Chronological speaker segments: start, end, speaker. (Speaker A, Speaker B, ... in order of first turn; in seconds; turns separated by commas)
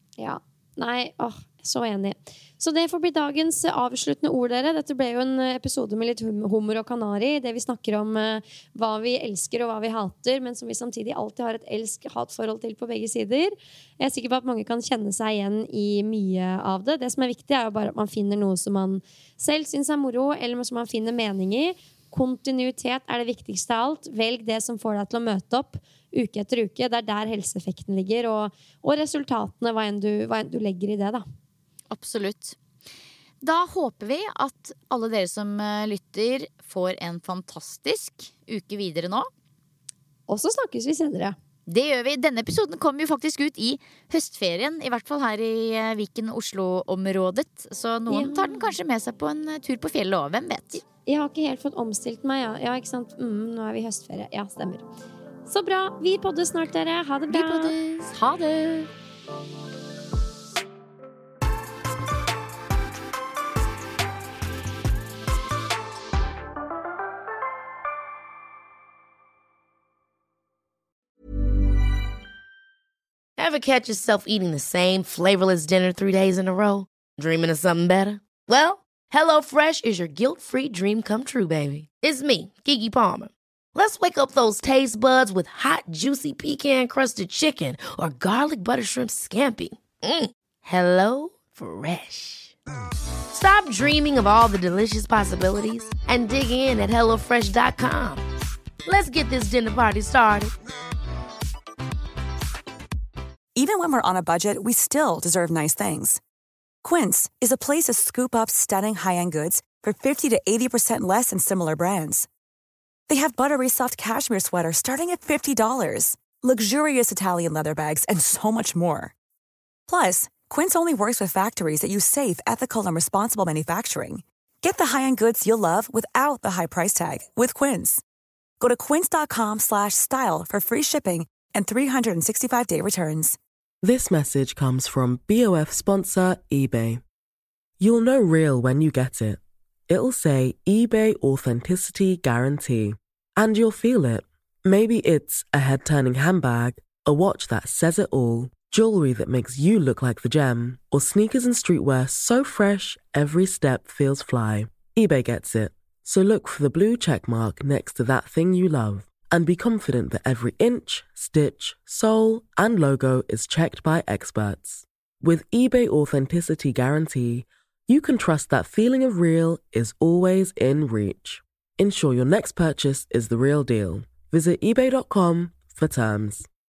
Speaker A: 0.2-31.2, Speaker B: 31.9-32.6, Speaker B: 33.4-39.3, Speaker A: 40.3-41.4, Speaker B: 41.7-50.8, Speaker A: 48.1-48.7, Speaker A: 51.0-54.8, Speaker A: 55.5-57.8, Speaker B: 57.3-58.9, Speaker C: 73.4-92.5, Speaker C: 93.3-98.2, Speaker C: 98.8-100.5, Speaker D: 103.5-106.2, Speaker D: 106.8-112.3, Speaker D: 113.1-119.1, Speaker D: 119.9-128.0, Speaker D: 128.6-133.4, Speaker E: 133.8-137.0, Speaker E: 137.8-176.5